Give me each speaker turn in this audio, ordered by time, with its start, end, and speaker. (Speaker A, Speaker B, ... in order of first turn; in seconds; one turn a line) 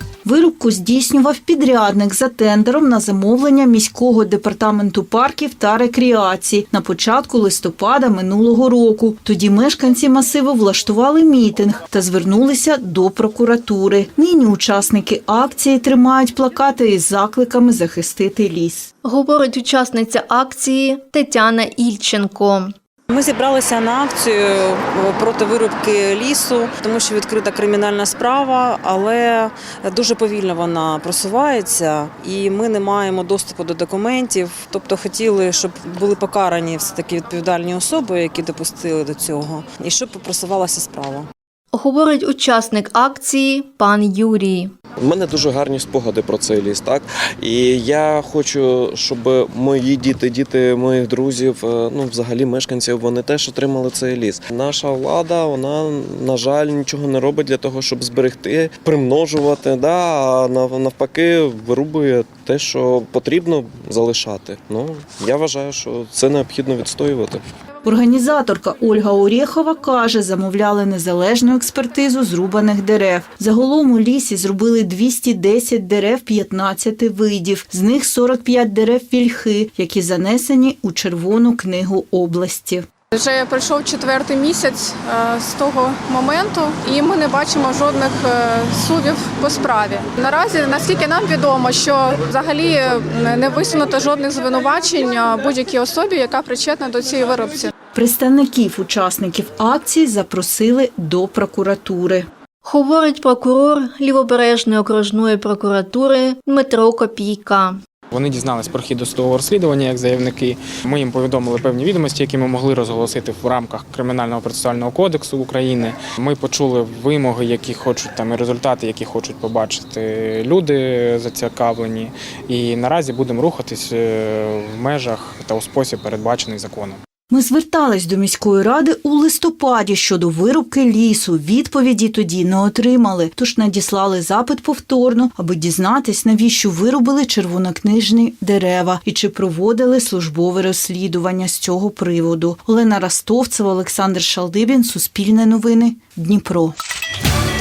Speaker A: 0.2-18.9
Speaker B: 19.0-22.7
Speaker C: 23.1-41.3
Speaker B: 41.7-44.7
Speaker D: 45.0-67.4
Speaker A: 67.8-82.9
Speaker E: 83.1-97.7
Speaker A: 98.0-102.3
Speaker B: 102.6-107.8
Speaker F: 108.1-127.0
Speaker A: 127.3-146.7